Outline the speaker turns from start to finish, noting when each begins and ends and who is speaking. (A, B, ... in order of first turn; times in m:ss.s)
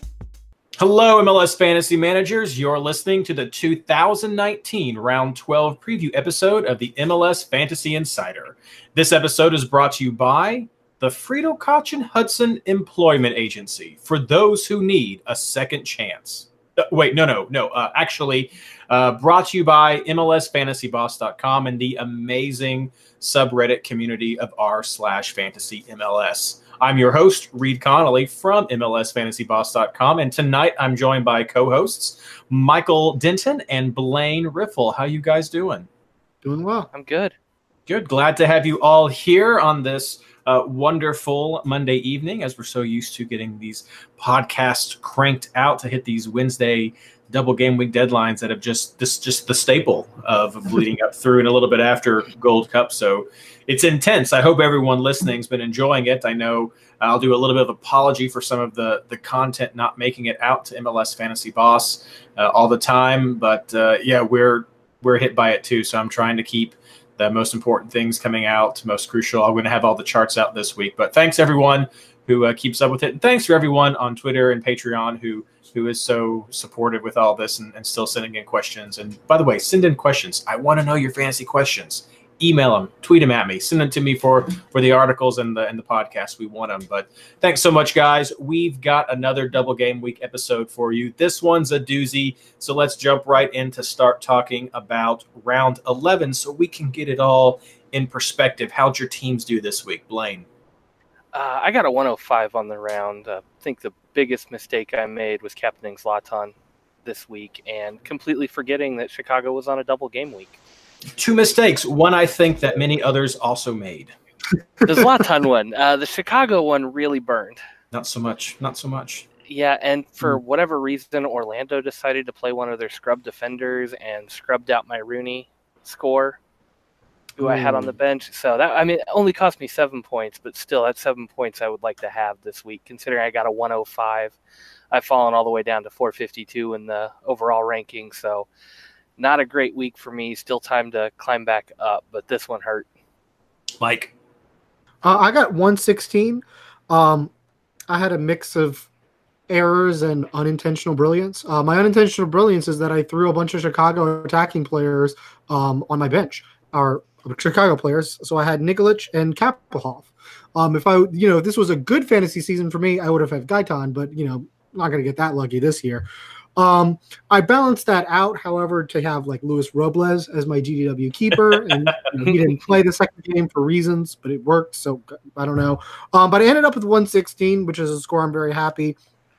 0:00.8-0:35.9 A
0:36.4-0:36.9 B
0:36.9-0:37.3 C
0:37.9-1:40.4 A
1:41.3-1:46.5 C
1:47.0-1:50.6 C
1:51.2-1:54.1 A
1:54.8-1:57.6 C
1:57.9-1:59.3 A
1:59.5-2:06.4 C
2:07.4-2:14.4 C
2:07.4-2:07.9 B
2:14.9-2:18.5 C
2:19.2-2:22.8 C
2:23.8-2:24.1 A
2:25.0-2:27.3 B
2:27.9-2:28.9 B
2:29.5-2:46.0 B
2:46.6-2:59.0 B